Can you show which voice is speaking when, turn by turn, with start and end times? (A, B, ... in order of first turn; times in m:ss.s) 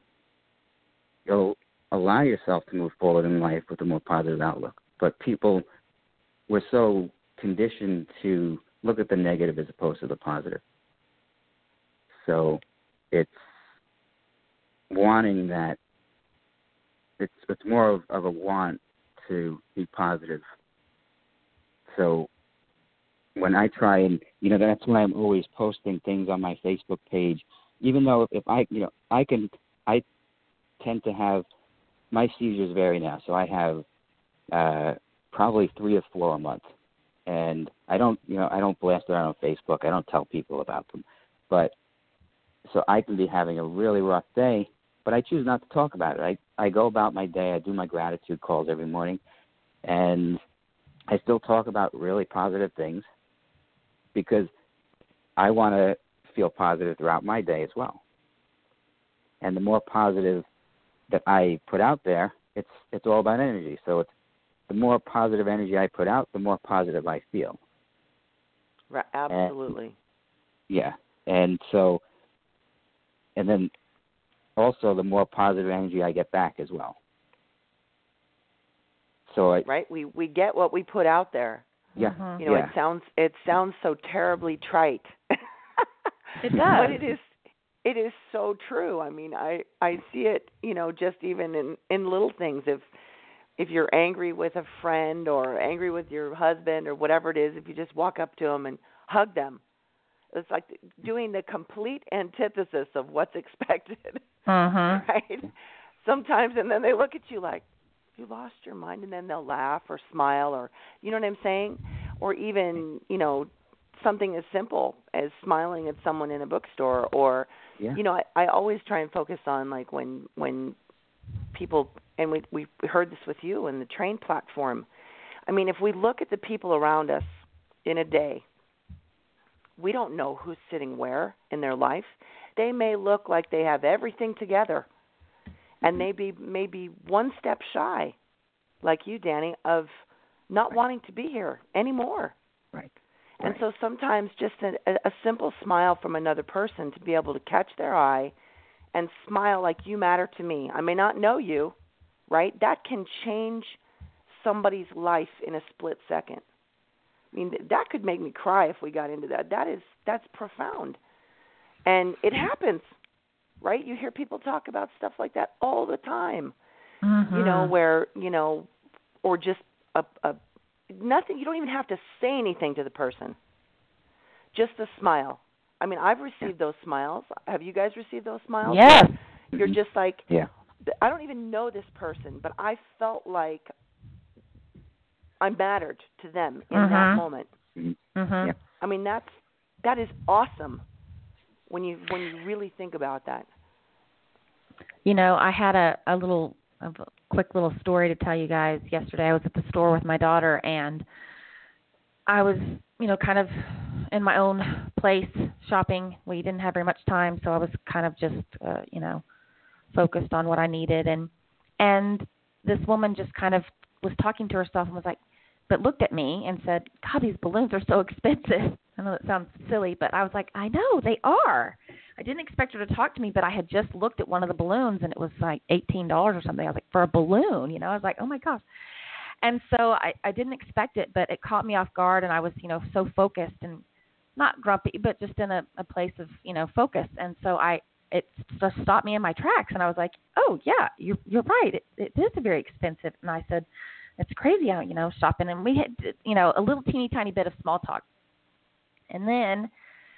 0:01.3-0:05.6 A
0:06.5-0:10.6 A
0:12.1-0:13.5 A
0:14.9-0:15.8 A
0:17.2-0:20.4 A
0:21.9-0:22.3 A
0:23.4-0:30.0 A
0:30.8-0:31.4 A
0:32.1-0:33.8 A
0:34.5-0:36.7 A
0:37.3-0:41.8 A
0:42.6-0:49.2 A
0:49.8-0:50.4 A
0:51.1-0:53.0 A
0:54.1-0:54.5 A
0:55.4-0:58.0 A
0:59.4-1:00.4 A
1:01.1-1:04.1 A
1:04.7-1:07.6 A
1:08.9-1:10.0 B
1:10.7-1:12.0 A
1:13.4-1:13.7 A
1:14.6-1:17.0 A
1:19.3-1:19.7 A
1:19.7-1:21.7 B
1:22.0-1:22.7 A
1:22.0-1:22.4 C
1:22.4-1:25.9 B
1:26.4-1:27.0 C
1:26.6-1:27.3 B
1:27.8-1:32.8 B
1:33.6-1:39.6 B
1:40.3-1:44.3 B
1:44.5-1:45.0 C
1:44.9-1:45.5 B
1:46.0-1:47.6 B
1:48.2-2:00.8 B
2:01.5-2:04.9 B
2:05.5-2:08.4 B
2:09.8-2:14.9 B
2:15.8-2:18.2 B
2:18.8-2:19.9 B
2:20.5-2:22.4 B
2:23.4-2:28.3 B
2:28.9-2:31.8 B
2:32.3-2:33.8 B
2:34.3-2:36.4 B
2:37.3-2:41.0 B
2:41.8-2:42.9 B
2:43.6-2:46.5 B
2:47.0-2:47.7 C
2:47.3-2:48.7 B
2:49.2-2:50.4 B
2:50.9-2:53.4 B
2:54.5-3:00.2 B
2:58.6-2:59.1 C
3:00.9-3:03.7 B
3:05.4-3:07.5 B
3:06.7-3:07.2 C
3:07.8-3:08.6 A
3:08.2-3:08.5 C
3:08.8-3:10.8 B
3:11.7-3:13.5 B
3:15.0-3:21.0 C
3:22.3-3:29.2 C
3:29.9-3:35.2 C
3:35.7-3:48.6 C
3:49.4-3:53.8 C
3:54.4-4:03.7 C
4:04.2-4:08.0 C
4:09.1-4:09.7 C